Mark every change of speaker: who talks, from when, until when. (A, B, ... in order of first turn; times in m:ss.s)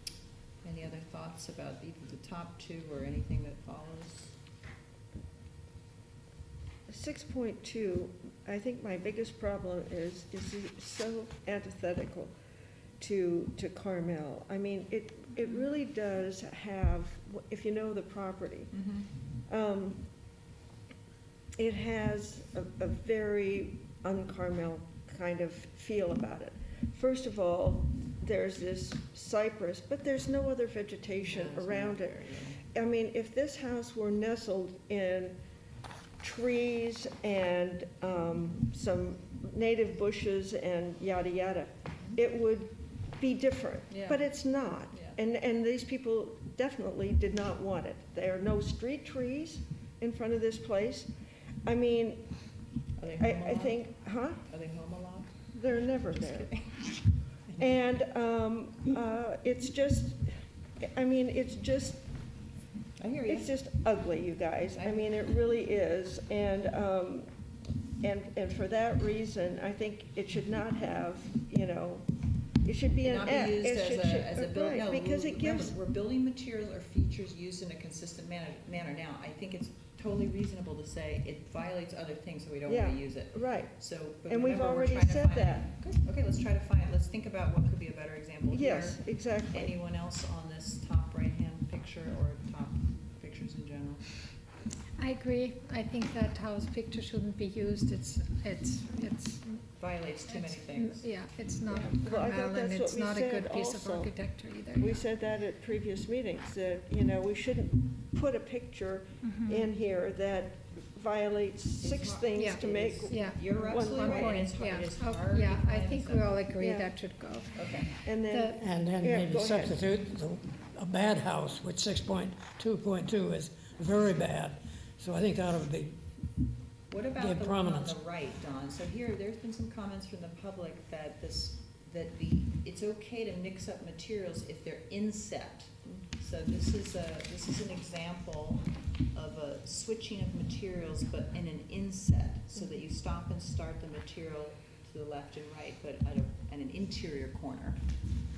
0:00.6-0:04.4 A
0:06.9-0:12.3 B
0:13.0-0:18.7 B
0:18.7-0:19.0 A
0:19.5-0:20.0 B
0:21.6-0:35.4 B
0:31.2-0:32.6 A
0:36.2-0:51.1 B
0:43.9-0:44.2 A
0:44.9-0:45.2 A
0:51.6-0:52.2 B
0:53.0-0:53.9 A
0:53.2-0:54.4 B
0:54.4-0:55.4 A
0:55.5-0:56.5 B
0:56.4-0:56.9 A
0:57.6-1:00.3 B
1:00.8-1:02.0 B
1:03.0-1:03.5 A
1:03.3-1:07.3 B
1:04.7-1:05.1 A
1:08.0-1:12.1 B
1:12.6-1:15.8 B
1:13.0-1:29.0 A
1:22.7-1:25.6 B
1:28.5-1:29.7 B
1:29.5-1:34.0 A
1:35.0-1:39.6 C
1:39.8-1:41.0 A
1:40.3-1:45.0 C
1:41.7-1:44.1 B
1:44.8-1:54.5 B
1:49.2-1:49.6 C
1:51.8-1:56.4 A
1:52.4-1:58.6 C
1:56.6-1:56.9 B
1:57.5-1:57.9 A
1:58.0-1:59.8 B
1:58.6-2:05.9 D
2:06.9-2:27.8 A
2:07.2-2:07.9 D